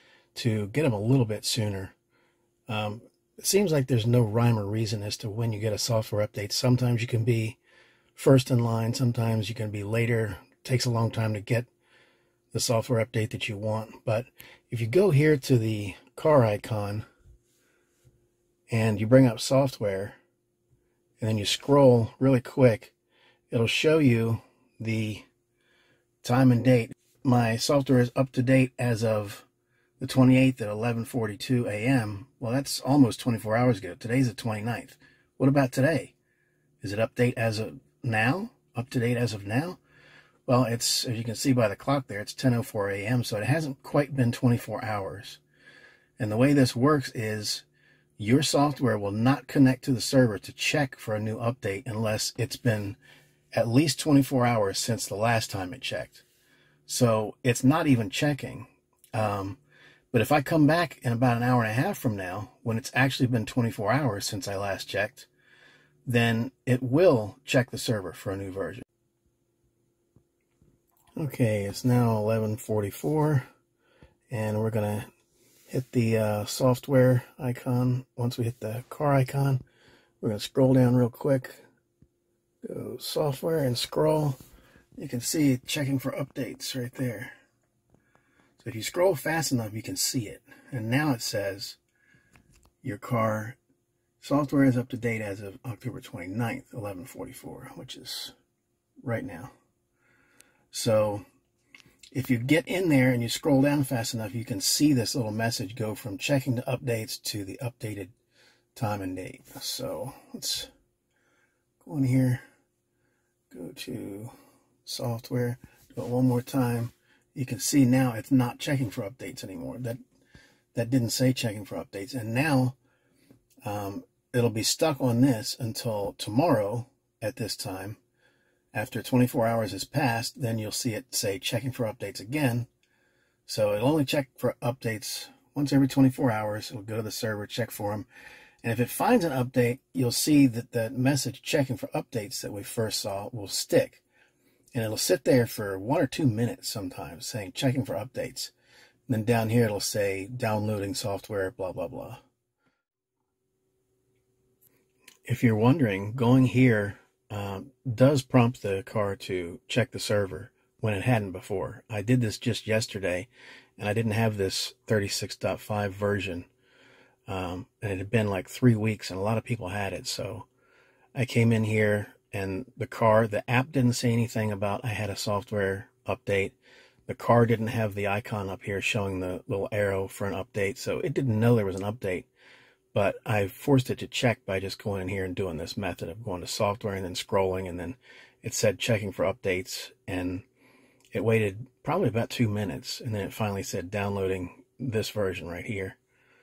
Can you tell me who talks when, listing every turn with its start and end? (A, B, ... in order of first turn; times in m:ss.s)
0:00.4-0:02.0 A
0:02.7-0:07.6 A
0:08.2-0:11.7 A
0:12.5-0:17.1 A
0:18.7-0:20.2 A
0:21.2-0:23.0 A
0:23.5-0:25.3 A
0:26.2-0:29.5 A
0:30.0-0:36.1 A
0:36.8-0:39.8 A
0:40.5-0:45.4 A
0:46.2-0:47.6 A
0:48.2-0:53.0 A
0:53.5-0:56.2 A
0:56.9-0:59.6 A
1:00.1-1:05.3 A
1:06.0-1:08.8 A
1:11.2-1:13.5 A
1:14.3-1:15.1 A
1:15.7-1:19.6 A
1:20.2-1:21.6 A
1:22.6-1:24.4 A
1:25.0-1:27.3 A
1:28.6-1:31.8 A
1:32.8-1:33.6 A
1:34.2-1:38.3 A
1:39.0-1:39.5 A
1:40.7-1:41.2 A
1:42.1-1:48.1 A
1:48.8-1:50.7 A
1:51.8-1:52.4 A
1:53.5-1:54.3 A
1:54.8-2:00.0 A
2:00.7-2:02.8 A
2:03.6-2:08.0 A
2:08.7-2:12.7 A
2:13.5-2:18.1 A
2:18.6-2:24.0 A
2:24.7-2:28.5 A
2:29.1-2:32.2 A
2:35.3-2:46.5 A
2:47.3-2:50.5 A
2:51.2-2:56.6 A
2:57.1-3:02.3 A
3:02.9-3:10.4 A
3:11.1-3:16.0 A